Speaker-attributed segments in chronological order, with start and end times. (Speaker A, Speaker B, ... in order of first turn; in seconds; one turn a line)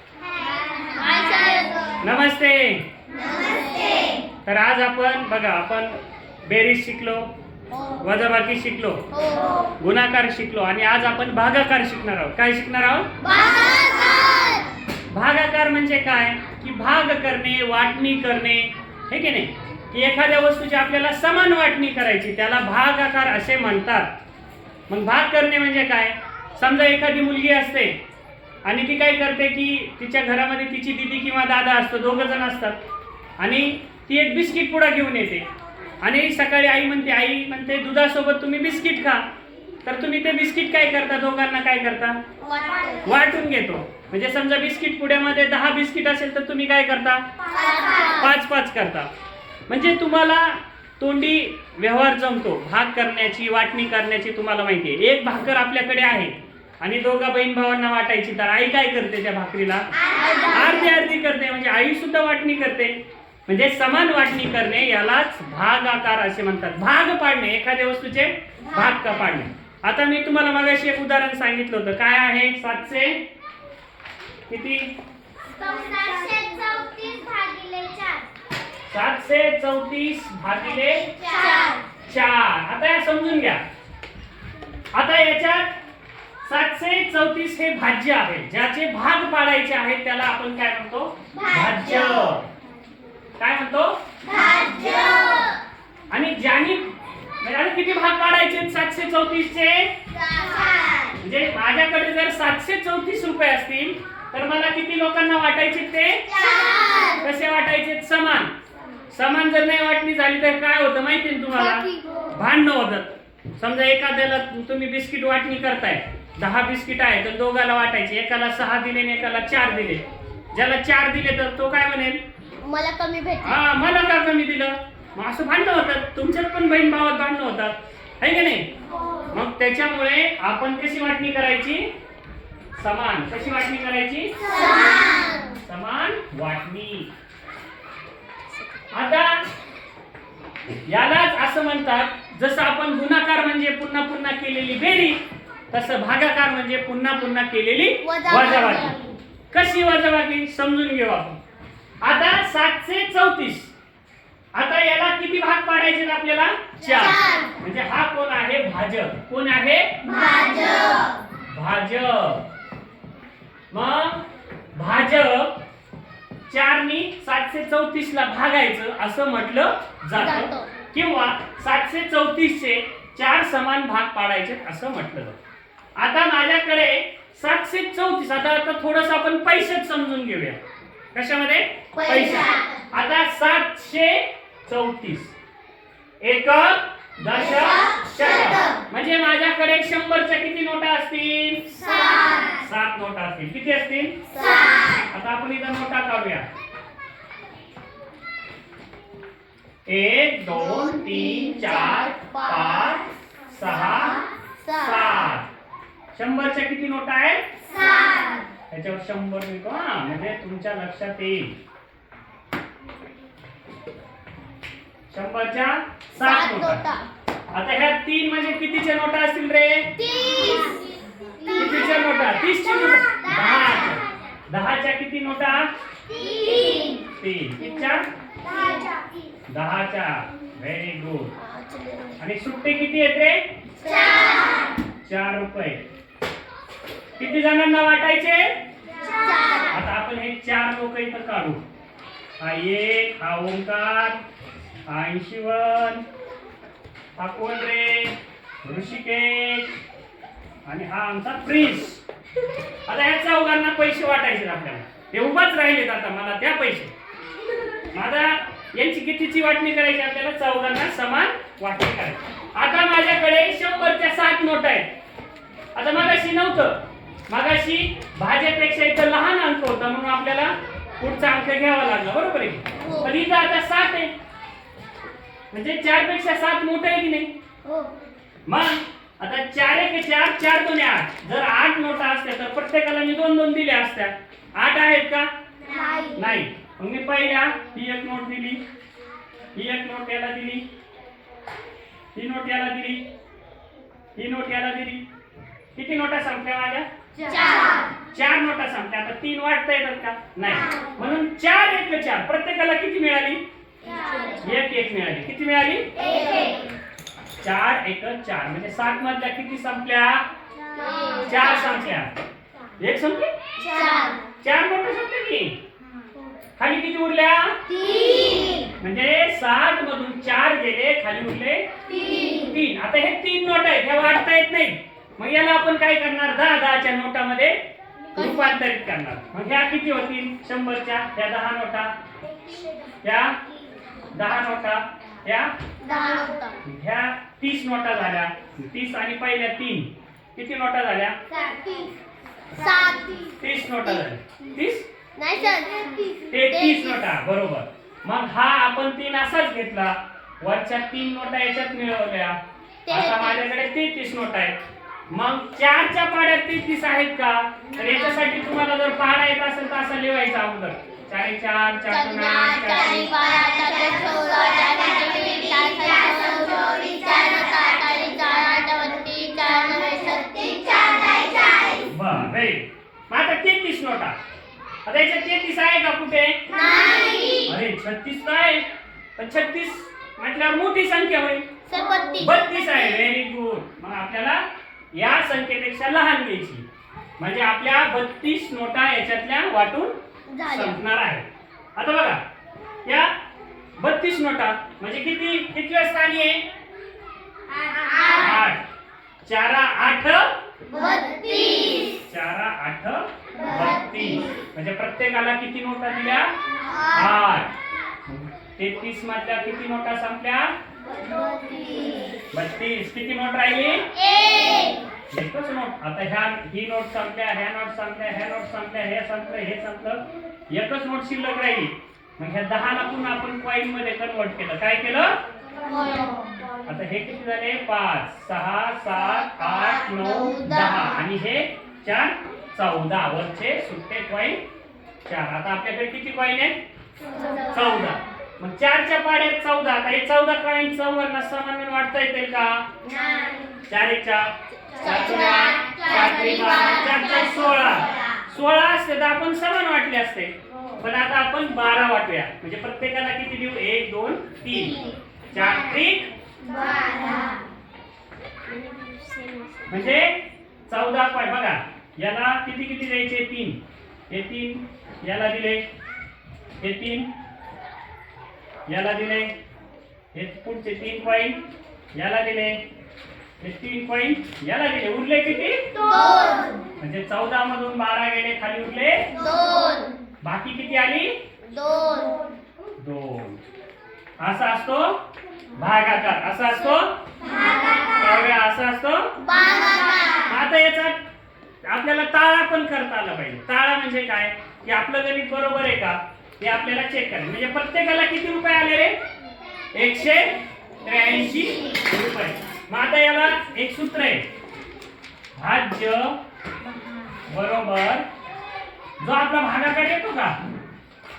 Speaker A: 0.8-2.0
Speaker B: 2.0-2.8
Speaker A: 3.2-4.1
Speaker B: 4.5-5.9
Speaker B: 6.5-7.2
Speaker B: 8.0-9.0
Speaker A: 9.1-9.7
Speaker B: 9.8-13.1
Speaker A: 13.2-14.7
Speaker B: 15.1-24.1
Speaker B: 24.9-28.0
Speaker B: 28.6-32.8
Speaker B: 33.4-35.5
Speaker B: 36.0-39.2
Speaker B: 39.8-42.2
Speaker A: 42.4-43.2
Speaker B: 43.0-47.2
Speaker A: 47.5-48.3
Speaker B: 48.1-49.1
Speaker B: 49.7-59.9
Speaker A: 60.0-61.0
Speaker B: 60.4-63.0
Speaker B: 63.5-73.2
Speaker B: 74.5-74.9
Speaker A: 75.5-78.3
Speaker B: 78.9-81.1
Speaker A: 81.0-81.8
Speaker B: 82.1-83.6
Speaker B: 84.9-85.7
Speaker B: 86.5-92.5
Speaker A: 91.3-92.4
Speaker B: 93.4-94.0
Speaker A: 94.2-95.6
Speaker B: 96.1-99.9
Speaker A: 100.2-101.2
Speaker B: 101.2-106.3
Speaker A: 106.3-107.2
Speaker B: 107.2-108.5
Speaker B: 109.1-120.0
Speaker A: 111.5-112.3
Speaker B: 120.5-122.2
Speaker A: 122.6-123.6
Speaker B: 123.4-128.7
Speaker B: 129.3-131.9
Speaker B: 132.8-134.5
Speaker A: 134.4-135.5
Speaker B: 135.6-137.1
Speaker B: 138.9-139.4
Speaker B: 140.9-145.2
Speaker B: 145.7-148.9
Speaker A: 148.0-149.1
Speaker B: 149.5-151.4
Speaker B: 152.0-153.7
Speaker B: 154.5-159.9
Speaker A: 156.8-157.6
Speaker A: 160.0-161.2
Speaker B: 161.5-162.4
Speaker B: 163.7-164.2
Speaker B: 164.7-165.5
Speaker B: 166.5-175.4
Speaker A: 170.1-170.7
Speaker B: 176.0-180.6
Speaker B: 181.1-185.3
Speaker A: 181.9-182.9
Speaker B: 186.2-191.9
Speaker A: 187.6-188.8
Speaker A: 191.8-192.6
Speaker B: 192.5-194.2
Speaker A: 194.3-195.1
Speaker B: 195.1-196.4
Speaker B: 199.8-204.2
Speaker A: 200.7-203.0
Speaker A: 203.9-205.3
Speaker B: 204.8-205.5
Speaker B: 206.1-207.4
Speaker A: 207.7-208.4
Speaker B: 208.7-211.5
Speaker B: 215.1-216.8
Speaker A: 216.2-217.1
Speaker B: 217.5-219.9
Speaker A: 220.0-220.9
Speaker A: 221.4-222.0
Speaker B: 221.5-225.7
Speaker A: 223.1-224.0
Speaker A: 226.1-227.0
Speaker B: 227.1-228.0
Speaker A: 228.4-229.0
Speaker B: 229.5-231.3
Speaker A: 231.4-232.2
Speaker B: 232.2-233.4
Speaker A: 233.8-234.8
Speaker B: 235.0-235.8
Speaker B: 237.2-238.5
Speaker A: 239.0-239.8
Speaker B: 239.7-241.6
Speaker B: 242.4-244.2
Speaker B: 244.9-246.0
Speaker B: 247.2-249.8
Speaker B: 250.7-252.0
Speaker B: 252.9-256.9
Speaker B: 257.9-264.9
Speaker B: 265.7-274.1
Speaker A: 272.8-273.1
Speaker B: 275.5-277.3
Speaker A: 277.6-277.9
Speaker B: 278.5-285.3
Speaker A: 285.6-286.4
Speaker B: 286.1-288.6
Speaker B: 289.5-290.6
Speaker B: 292.1-293.0
Speaker B: 294.1-295.0
Speaker B: 295.8-296.9
Speaker A: 297.2-297.9
Speaker B: 298.1-303.4
Speaker A: 303.8-304.5
Speaker B: 304.4-305.9
Speaker A: 306.0-306.7
Speaker B: 307.4-310.2
Speaker A: 310.7-311.9
Speaker B: 311.2-312.1
Speaker B: 312.8-313.3
Speaker A: 313.6-314.2
Speaker B: 314.4-315.6
Speaker B: 316.6-317.6
Speaker A: 317.7-318.7
Speaker B: 318.8-321.7
Speaker A: 321.9-322.5
Speaker B: 322.2-327.6
Speaker A: 328.1-328.6
Speaker B: 328.1-331.9
Speaker B: 333.0-333.4
Speaker B: 334.1-335.5
Speaker A: 335.8-336.6
Speaker B: 336.6-341.2
Speaker A: 341.3-341.9
Speaker A: 342.5-343.4
Speaker B: 343.4-344.9
Speaker A: 345.1-347.1
Speaker B: 346.3-352.4
Speaker A: 352.9-353.4
Speaker B: 352.9-354.6
Speaker B: 355.1-363.1
Speaker A: 361.9-371.9
Speaker B: 371.8-374.1
Speaker B: 374.9-376.4
Speaker A: 376.5-377.5
Speaker B: 377.4-378.6
Speaker B: 379.2-381.4
Speaker A: 381.7-382.8
Speaker B: 382.2-384.4
Speaker B: 384.9-386.6
Speaker B: 387.2-391.2
Speaker A: 390.3-390.8
Speaker B: 391.8-392.2
Speaker B: 392.9-393.1
Speaker B: 393.8-396.4
Speaker A: 397.5-398.4
Speaker B: 398.1-398.6
Speaker B: 399.2-400.3
Speaker A: 400.7-402.0
Speaker B: 402.0-406.3
Speaker A: 403.4-404.3
Speaker A: 406.6-407.1
Speaker B: 406.9-407.5
Speaker B: 408.1-410.5
Speaker A: 411.0-412.2
Speaker B: 412.3-413.9
Speaker A: 413.9-414.9
Speaker B: 415.1-425.1
Speaker A: 425.6-426.3
Speaker B: 426.6-434.4
Speaker A: 429.3-431.0
Speaker B: 435.1-436.6
Speaker A: 437.1-437.6
Speaker B: 437.4-442.7
Speaker A: 442.8-443.6
Speaker B: 443.7-456.1
Speaker A: 444.7-448.0
Speaker A: 454.5-455.5
Speaker A: 456.4-457.4
Speaker A: 458.6-459.5
Speaker B: 459.7-463.6
Speaker B: 464.1-465.6
Speaker B: 466.6-467.1
Speaker B: 468.7-469.3
Speaker B: 470.1-471.4
Speaker B: 471.9-472.6
Speaker B: 473.4-475.6
Speaker A: 475.7-476.6
Speaker B: 476.8-479.1
Speaker A: 479.1-479.9
Speaker B: 480.2-481.1
Speaker A: 481.4-482.2
Speaker B: 482.8-483.4
Speaker B: 484.2-485.0
Speaker B: 485.6-486.9
Speaker A: 487.2-488.0
Speaker B: 487.9-489.1
Speaker A: 489.2-490.3
Speaker B: 490.2-490.9
Speaker B: 491.6-498.9
Speaker B: 499.7-504.2
Speaker B: 505.4-506.2
Speaker A: 506.7-507.0
Speaker B: 507.2-508.1
Speaker B: 509.0-510.4